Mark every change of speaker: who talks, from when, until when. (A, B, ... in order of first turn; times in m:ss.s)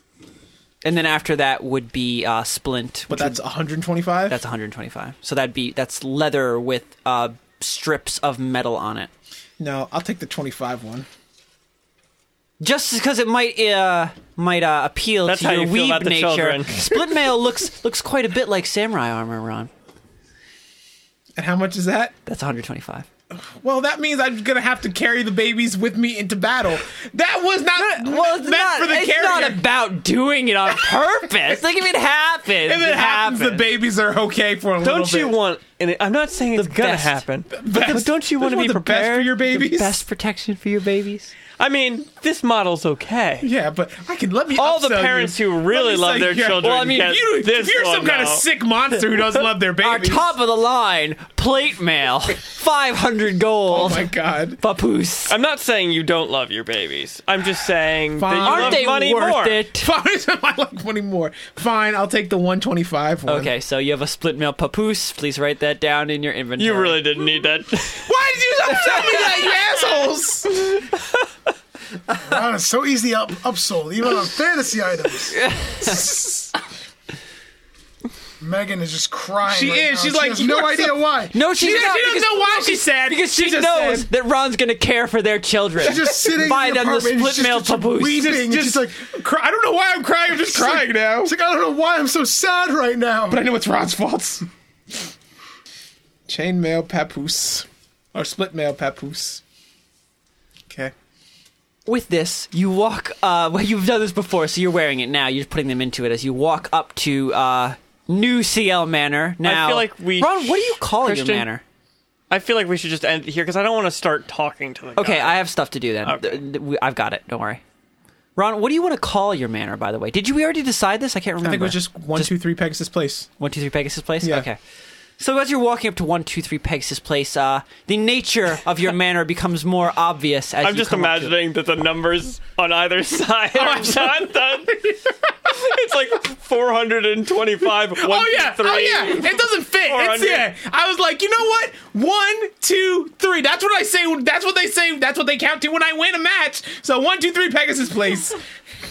0:00.8-0:03.4 A
0:03.1-0:04.4 B
0:04.3-0:09.1 A
0:09.6-0:11.1 B
0:12.6-0:19.7 A
0:15.3-0:16.8 C
0:21.4-0:22.1 B
0:22.3-0:23.1 A
0:23.3-0:29.7 B
0:27.8-0:33.7 A
0:32.6-0:35.4 B
0:34.8-0:39.4 C
0:36.5-0:37.2 A
0:37.6-0:40.0 B
0:39.4-0:41.3 A
0:41.6-0:43.5 C
0:43.4-0:50.3 B
0:44.6-0:48.4 C
0:49.8-0:55.4 A
0:53.7-0:54.6 B
0:55.3-0:59.6 C
0:58.2-1:03.5 B
0:58.4-0:59.9 A
1:03.3-1:07.0 A
1:06.6-1:08.1 C
1:08.0-1:10.6 B
1:12.2-1:15.4 D
1:15.3-1:16.2 A
1:15.8-1:16.5 B
1:18.4-1:21.4 D
1:19.4-1:24.1 B
1:21.3-1:28.3 A
1:25.8-1:29.0 D
1:25.8-1:26.2 B
1:28.1-1:31.3 B
1:30.4-1:33.4 D
1:33.3-1:34.4 B
1:36.3-1:39.4 B
1:40.7-1:40.9 B
1:41.9-1:51.6 A
1:49.4-1:51.5 C
1:52.3-1:55.4 C
1:55.0-1:57.6 A
1:56.0-1:56.4 C
1:58.4-2:02.4 A
2:01.4-2:03.3 B
2:03.4-2:04.6 A
2:04.2-2:04.5 B
2:05.2-2:11.4 A
2:10.6-2:20.5 C
2:13.5-2:15.0 B
2:18.0-2:28.4 B